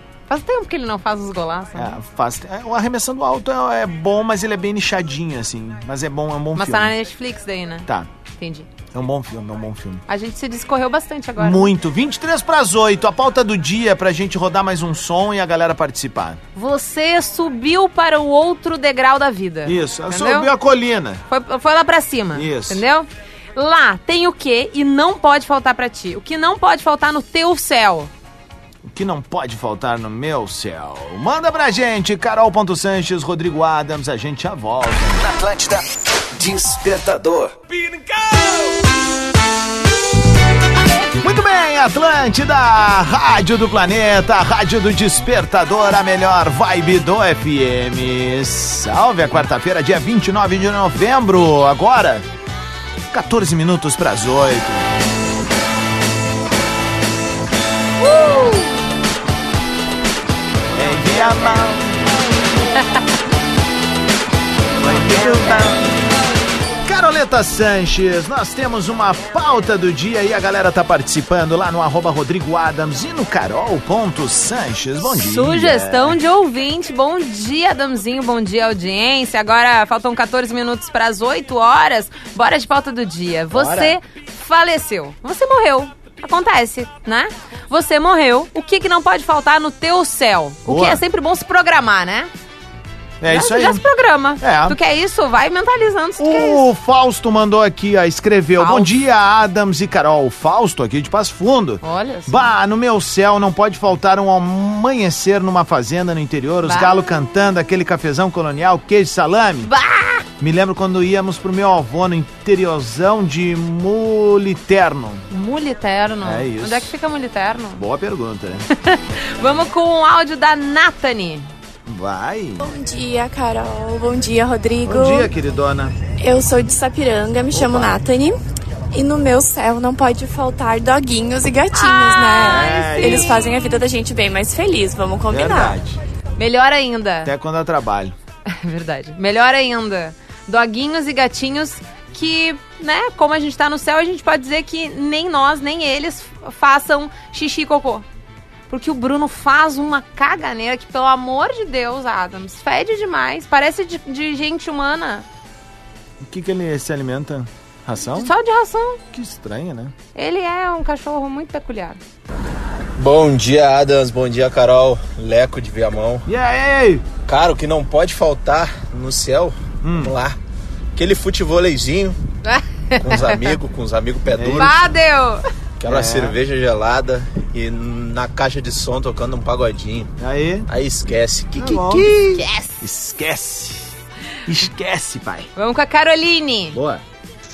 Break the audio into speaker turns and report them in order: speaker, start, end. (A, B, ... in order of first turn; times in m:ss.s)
0:00.3-0:02.0 A
0:01.7-0:06.9 B
0:06.6-0:07.9 A
0:08.4-0:08.7 A
0:08.9-0:10.0 B
0:10.1-0:11.7 A
0:11.4-0:16.4 B
0:16.5-0:20.5 A
0:19.6-0:21.2 B
0:21.3-0:28.1 A
0:22.3-0:22.8 B
0:28.8-0:35.3 B
0:35.2-0:35.8 C
0:36.3-0:37.6 C
0:41.2-0:52.2 B
0:53.1-0:54.9 B
0:58.0-0:58.6 A
1:00.7-1:02.0 B
1:04.8-1:05.8 B
1:06.8-1:16.2 B
1:15.1-1:32.3 A
1:23.5-1:24.0 B
1:30.6-1:31.0 B
1:33.2-1:33.8 B
1:33.3-1:36.6 A
1:34.4-1:34.8 B
1:36.2-1:49.7 B
1:38.6-1:38.9 A
1:41.8-1:42.5 A
1:46.7-1:47.0 A
1:49.6-1:50.2 A
1:50.4-1:55.2 B
1:55.3-1:57.8 A
1:56.2-1:56.9 B
1:57.8-1:58.6 B
1:58.8-2:01.5 A
2:01.8-2:02.6 B
2:02.6-2:05.3 D
2:04.8-2:06.0 B
2:06.2-2:08.4 D
2:07.5-2:08.0 B
2:08.9-2:15.8 D
2:11.7-2:13.4 A
2:12.3-2:13.6 B
2:15.3-2:16.0 B
2:16.4-2:17.3 A
2:17.2-2:18.1 B
2:18.5-2:28.0 A
2:28.7-2:35.2 A
2:36.2-2:38.3 B
2:38.1-2:39.0 A
2:39.1-2:39.9 B
2:40.1-2:42.0 A
2:43.0-2:46.2 E
2:46.2-2:47.0 B
2:47.2-2:50.4 E
2:49.8-2:50.1 B
2:50.9-2:52.2 E
2:52.4-2:53.6 A
2:53.0-2:54.8 E
2:54.3-2:54.8 B
2:54.6-2:55.4 A
2:55.8-3:00.1 E
2:55.8-2:56.4 B
3:00.2-3:00.7 B
3:00.7-3:02.4 E
3:01.6-3:02.1 B
3:02.3-3:02.8 A
3:02.8-3:03.9 B
3:04.4-3:05.5 B
3:05.6-3:06.8 A
3:06.7-3:07.0 B